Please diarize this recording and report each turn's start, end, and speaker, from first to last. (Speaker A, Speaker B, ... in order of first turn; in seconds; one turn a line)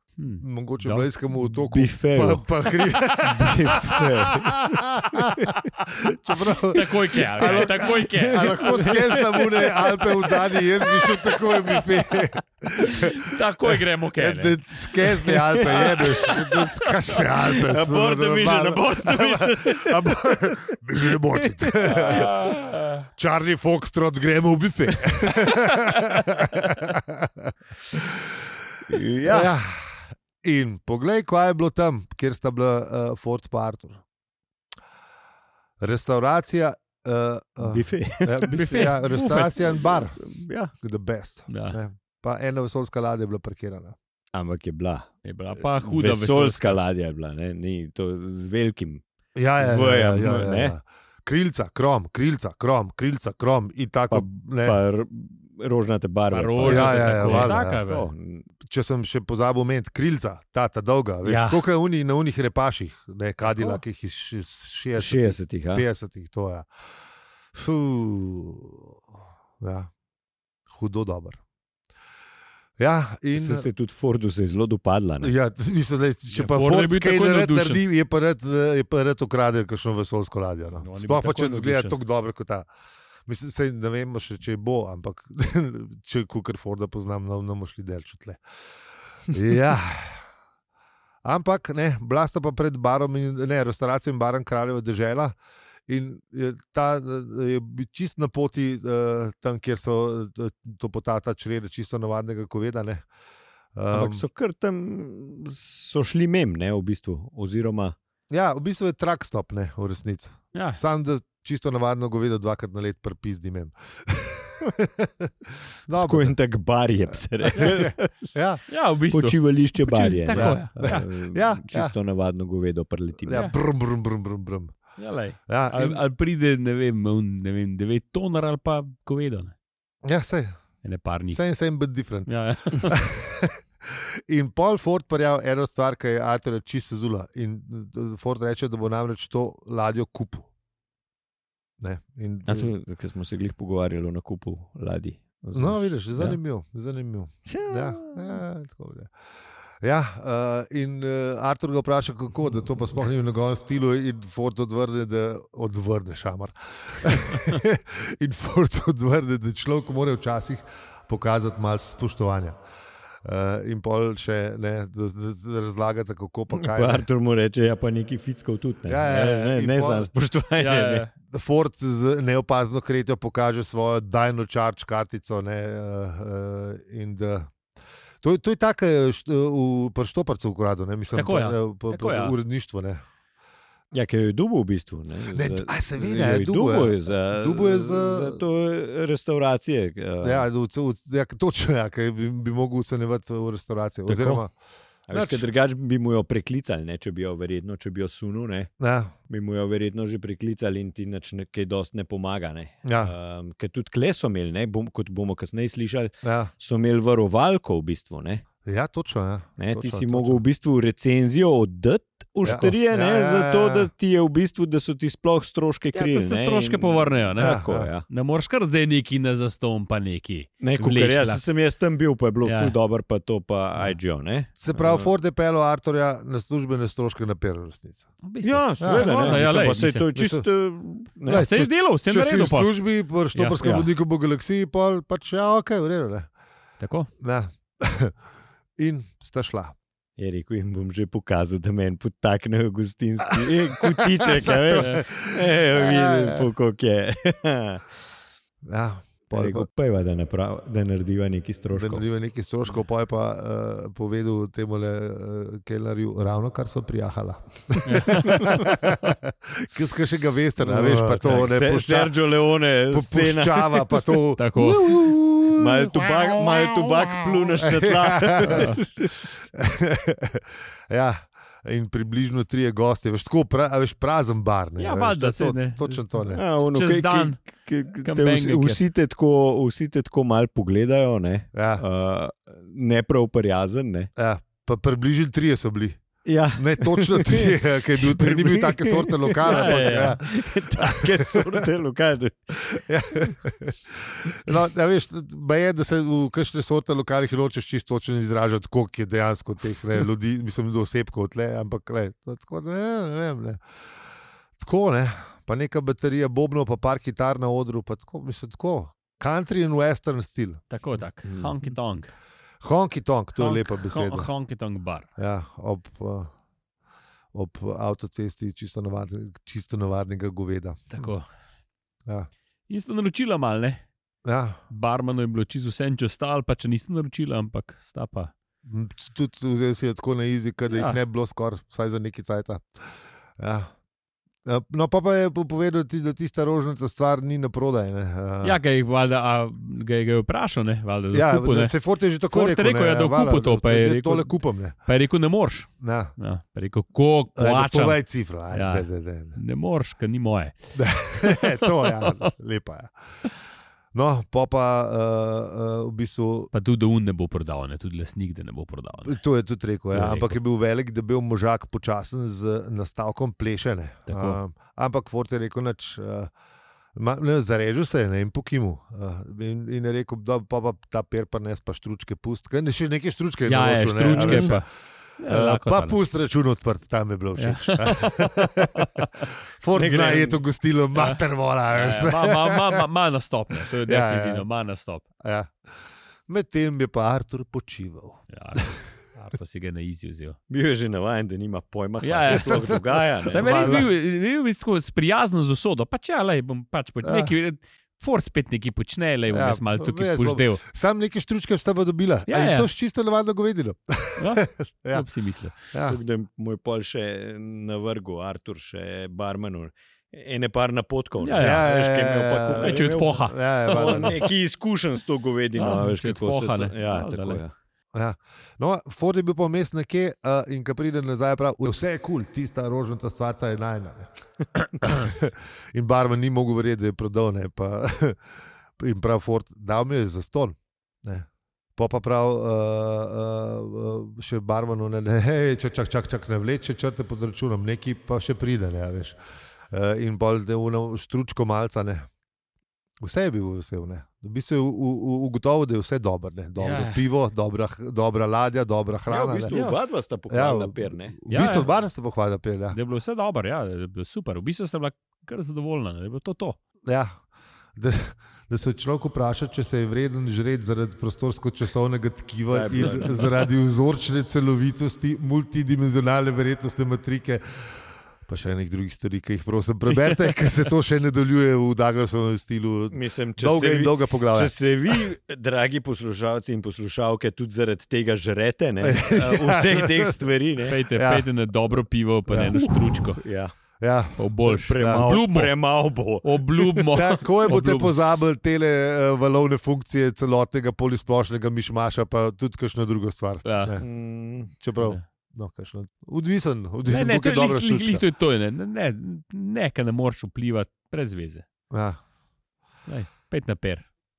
Speaker A: 0.2-1.1
Speaker B: 0.4-28.5
Speaker C: 1.7-5.6
Speaker A: 6.7-9.2
Speaker C: 7.4-11.2
Speaker A: 12.8-14.6
Speaker C: 15.3-16.6
Speaker A: 15.6-16.4
Speaker C: 17.2-20.2
Speaker C: 21.4-22.1
Speaker A: 21.8-23.1
Speaker C: 28.9-29.6
Speaker B: 29.3-34.0
Speaker B: 35.8-40.2
Speaker C: 37.6-38.9
Speaker A: 38.5-39.8
Speaker C: 39.8-40.7
Speaker B: 40.8-44.0
Speaker A: 41.5-41.8
Speaker C: 44.3-49.0
Speaker A: 45.2-46.8
Speaker B: 49.4-54.8
Speaker C: 49.6-50.8
Speaker C: 54.1-58.5
Speaker A: 56.3-58.1
Speaker B: 56.6-57.8
Speaker B: 58.6-66.7
Speaker C: 61.2-61.6
Speaker C: 65.0-65.9
Speaker B: 67.5-69.0
Speaker B: 69.6-69.9
Speaker B: 70.7-71.4
Speaker B: 72.8-73.7
Speaker C: 73.3-75.3
Speaker B: 75.2-82.7
Speaker A: 76.3-77.8
Speaker A: 80.8-82.0
Speaker B: 83.3-88.4
Speaker B: 89.3-90.2
Speaker B: 91.2-95.3
Speaker B: 95.9-103.1
Speaker B: 103.8-104.2
Speaker C: 103.9-108.0
Speaker B: 108.3-116.3
Speaker A: 110.5-110.8
Speaker C: 115.9-118.3
Speaker B: 117.5-118.6
Speaker A: 118.7-121.1
Speaker C: 119.1-123.5
Speaker B: 120.3-122.0
Speaker B: 123.3-124.8
Speaker A: 123.3-123.5
Speaker A: 125.0-129.5
Speaker B: 125.5-126.0
Speaker B: 130.0-130.6
Speaker A: 130.8-131.4
Speaker B: 131.3-140.5
Speaker A: 132.3-133.0
Speaker B: 141.8-142.7
Speaker C: 142.5-146.4
Speaker B: 145.6-149.1
Speaker C: 147.5-148.4
Speaker B: 149.8-162.6
Speaker B: 163.2-167.1
Speaker C: 166.5-171.1
Speaker B: 168.9-170.1
Speaker A: 170.6-171.1
Speaker B: 171.2-177.5
Speaker B: 178.2-183.0
Speaker A: 181.1-182.4
Speaker C: 183.9-190.5
Speaker B: 185.3-188.4
Speaker B: 190.2-194.5
Speaker C: 194.1-194.4
Speaker C: 195.1-198.7
Speaker B: 195.1-195.5
Speaker B: 198.8-199.1
Speaker C: 199.3-208.4
Speaker B: 202.8-203.1
Speaker B: 206.2-206.5
Speaker B: 208.7-210.4
Speaker C: 209.6-218.1
Speaker B: 212.4-213.9
Speaker A: 215.9-221.4
Speaker B: 217.4-217.9
Speaker C: 220.6-225.1
Speaker A: 222.4-222.8
Speaker B: 224.6-228.1
Speaker A: 228.2-230.1
Speaker C: 228.4-231.5
Speaker B: 228.8-229.6
Speaker B: 230.2-230.5
Speaker B: 231.3-236.3
Speaker A: 231.3-232.7
Speaker A: 233.3-233.7
Speaker A: 236.8-237.1
Speaker B: 237.2-238.2
Speaker B: 238.8-239.8
Speaker C: 240.2-247.8
Speaker B: 243.4-246.5
Speaker A: 244.8-245.1
Speaker B: 248.7-249.7
Speaker C: 249.3-252.0
Speaker B: 251.7-262.2
Speaker A: 257.9-259.1
Speaker C: 260.6-264.2
Speaker B: 262.9-265.9
Speaker A: 264.4-265.0
Speaker C: 264.9-269.5
Speaker B: 267.6-268.8
Speaker A: 268.5-268.8
Speaker B: 269.5-276.4
Speaker A: 274.8-277.4
Speaker C: 276.3-284.1
Speaker A: 278.0-278.8
Speaker B: 281.5-281.8
Speaker B: 284.2-286.0
Speaker C: 286.2-293.3
Speaker B: 286.6-291.6
Speaker A: 289.4-290.2
Speaker B: 292.6-303.6
Speaker B: 304.6-310.6
Speaker A: 310.7-312.1
Speaker C: 311.2-311.5
Speaker B: 312.6-314.3
Speaker A: 313.4-315.1
Speaker B: 315.2-316.3
Speaker B: 317.3-320.9
Speaker A: 320.9-321.3
Speaker A: 322.7-323.8
Speaker B: 324.2-324.6
Speaker A: 324.7-328.3
Speaker B: 328.6-333.7
Speaker A: 330.7-331.0
Speaker B: 334.4-338.6
Speaker A: 338.4-341.8
Speaker B: 341.1-344.8
Speaker A: 342.3-344.4
Speaker A: 344.9-348.0
Speaker B: 345.8-346.1
Speaker B: 347.4-349.4
Speaker A: 348.5-350.5
Speaker B: 350.8-352.9
Speaker A: 351.2-352.3
Speaker B: 353.9-356.5
Speaker A: 356.5-359.2
Speaker B: 359.1-366.3
Speaker A: 359.9-360.4
Speaker A: 364.1-364.4
Speaker B: 366.9-374.7
Speaker A: 373.5-374.7
Speaker C: 374.1-374.6
Speaker A: 375.2-376.0
Speaker B: 375.3-382.8
Speaker A: 377.4-380.4
Speaker A: 380.9-385.0
Speaker B: 383.6-384.4
Speaker B: 385.2-385.5
Speaker B: 386.3-388.6
Speaker A: 388.3-390.4
Speaker C: 390.5-393.9
Speaker A: 392.0-400.6
Speaker B: 392.4-393.9
Speaker B: 397.0-397.3
Speaker B: 399.3-405.1
Speaker A: 402.3-402.7
Speaker A: 404.2-405.7
Speaker B: 405.7-406.0
Speaker C: 405.9-417.5
Speaker A: 411.2-411.7
Speaker B: 411.4-414.2
Speaker A: 412.5-414.3
Speaker A: 415.6-417.4
Speaker B: 417.9-424.1
Speaker B: 424.8-428.2
Speaker B: 428.8-439.2
Speaker B: 439.7-442.1
Speaker B: 443.0-449.5
Speaker A: 446.6-447.1
Speaker C: 449.1-451.2
Speaker A: 449.5-449.8
Speaker B: 450.3-452.8
Speaker A: 451.3-451.7
Speaker A: 452.7-456.6
Speaker B: 456.9-457.2
Speaker B: 457.8-475.0
Speaker C: 462.5-463.2
Speaker C: 472.9-480.8
Speaker B: 478.8-480.1
Speaker A: 480.7-483.2
Speaker B: 480.9-481.3
Speaker B: 482.3-483.0
Speaker C: 482.6-483.6
Speaker B: 483.8-484.2
Speaker A: 484.2-485.6
Speaker C: 484.5-486.4
Speaker B: 484.8-485.1
Speaker A: 486.2-488.0
Speaker B: 486.8-493.9
Speaker A: 493.4-493.8
Speaker C: 493.8-494.5
Speaker B: 494.5-498.0
Speaker A: 494.8-495.0
Speaker A: 496.9-501.5
Speaker B: 501.7-502.0
Speaker A: 502.9-503.9